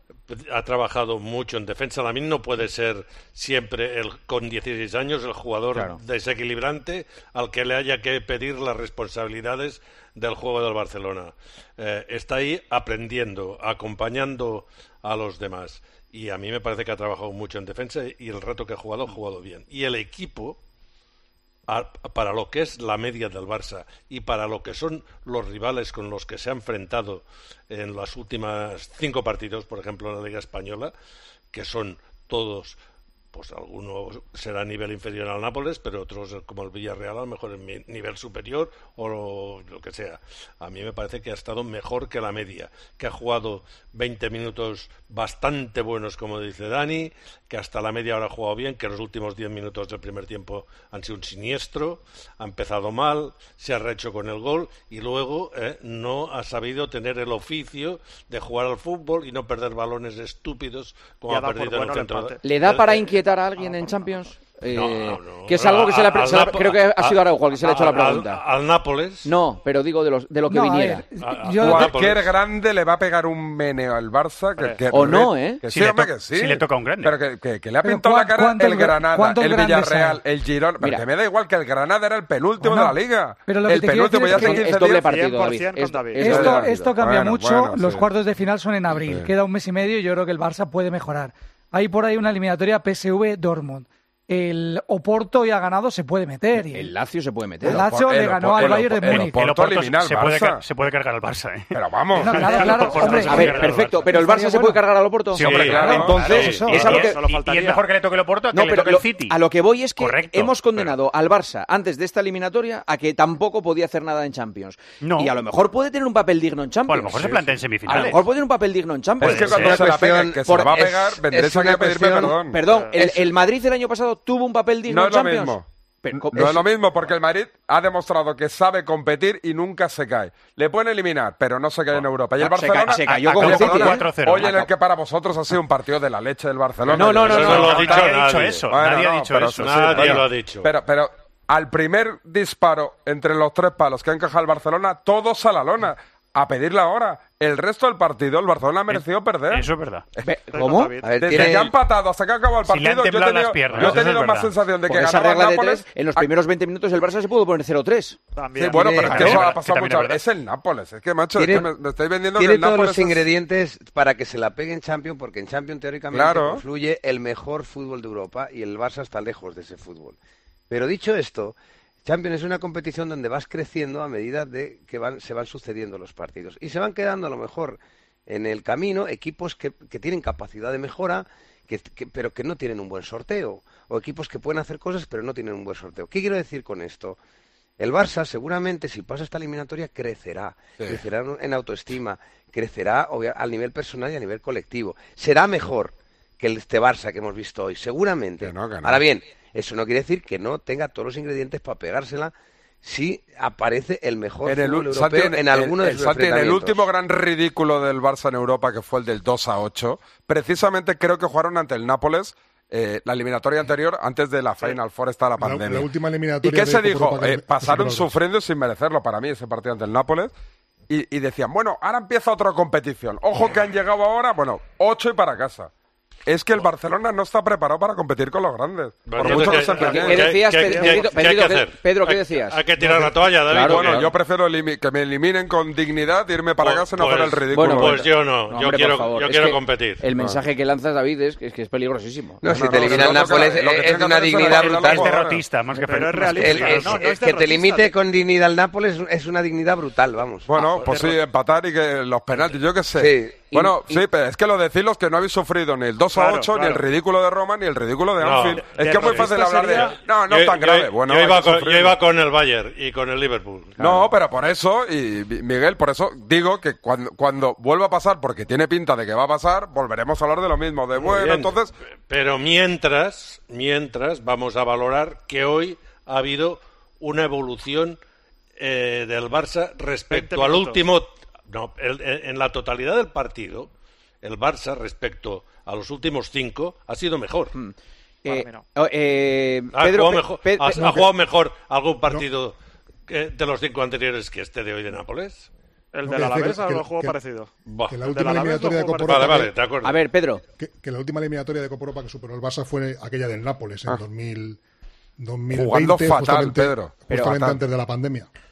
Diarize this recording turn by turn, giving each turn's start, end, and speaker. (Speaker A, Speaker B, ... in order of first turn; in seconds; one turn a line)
Speaker A: 0.3-20.6
Speaker B: 5.7-6.0
Speaker A: 21.7-30.9
Speaker A: 31.5-32.8
Speaker A: 33.3-63.1
Speaker C: 61.3-62.4
Speaker B: 62.4-68.4
Speaker A: 64.7-69.3
Speaker B: 69.2-71.0
Speaker D: 70.5-71.9
Speaker A: 71.2-72.3
Speaker E: 71.6-85.1
Speaker C: 74.6-74.9
Speaker B: 74.9-75.6
Speaker F: 75.7-77.2
Speaker D: 77.8-80.2
Speaker D: 82.6-84.6
Speaker B: 84.3-86.9
Speaker C: 84.8-86.3
Speaker D: 86.2-96.9
Speaker E: 86.2-88.1
Speaker E: 88.9-89.3
Speaker B: 96.6-97.8
Speaker D: 97.6-99.6
Speaker E: 97.7-100.6
Speaker F: 98.6-104.1
Speaker E: 101.7-103.1
Speaker D: 102.2-104.8
Speaker C: 102.8-103.2
Speaker B: 102.9-107.2
Speaker F: 105.3-109.4
Speaker E: 105.4-106.5
Speaker A: 105.4-106.7
Speaker D: 105.7-106.8
Speaker C: 106.7-107.9
Speaker B: 108.5-120.7
Speaker F: 110.0-110.9
Speaker F: 115.0-115.3
Speaker F: 116.9-118.2
Speaker F: 119.2-119.8
Speaker E: 119.2-122.6
Speaker G: 119.5-122.4
Speaker B: 122.5-126.7
Speaker C: 122.6-123.0
Speaker G: 122.9-123.3
Speaker E: 124.9-149.7
Speaker B: 132.4-134.7
Speaker F: 132.8-134.7
Speaker B: 136.9-137.9
Speaker A: 136.9-138.7
Speaker F: 137.4-140.2
Speaker A: 139.6-140.7
Speaker F: 148.9-150.0
Speaker B: 150.2-151.4
Speaker C: 150.5-151.4
Speaker G: 151.0-151.7
Speaker E: 151.2-156.3
Speaker F: 152.7-154.5
Speaker B: 154.9-158.2
Speaker C: 158.3-159.5
Speaker E: 158.5-163.2
Speaker B: 158.8-159.4
Speaker F: 158.9-160.2
Speaker G: 161.4-161.7
Speaker G: 162.3-170.2
Speaker E: 166.1-166.6
Speaker G: 170.7-187.2
Speaker G: 187.8-206.8
Speaker E: 198.4-199.0
Speaker E: 204.4-215.9
Speaker H: 215.4-218.1
Speaker E: 216.4-220.3
Speaker E: 220.9-225.7
Speaker E: 226.2-230.3
Speaker A: 229.1-234.1
Speaker C: 229.2-231.3
Speaker B: 229.3-234.0
Speaker E: 233.5-238.0
Speaker A: 236.6-240.0
Speaker B: 237.5-242.4
Speaker G: 242.4-245.2
Speaker E: 242.4-245.4
Speaker F: 244.4-247.0
Speaker C: 245.7-247.9
Speaker G: 246.3-250.6
Speaker E: 250.5-262.0
Speaker C: 250.8-251.2
Speaker G: 252.9-253.5
Speaker B: 253.6-254.0
Speaker C: 256.1-256.9
Speaker A: 258.2-264.0
Speaker C: 258.5-259.9
Speaker E: 263.8-271.7
Speaker A: 270.9-271.5
Speaker A: 272.1-278.0
Speaker A: 278.6-283.7
Speaker C: 280.1-280.8
Speaker A: 284.2-287.5
Speaker B: 287.5-291.0
Speaker C: 288.3-288.6
Speaker A: 289.7-292.5
Speaker A: 293.1-295.5
Speaker C: 295.9-299.4
Speaker H: 296.1-297.2
Speaker A: 297.7-298.0
Speaker H: 297.9-299.5
Speaker A: 299.1-300.0
Speaker B: 299.8-300.4
Speaker H: 300.6-304.6
Speaker H: 305.2-308.3
Speaker E: 305.5-307.0
Speaker B: 307.1-307.5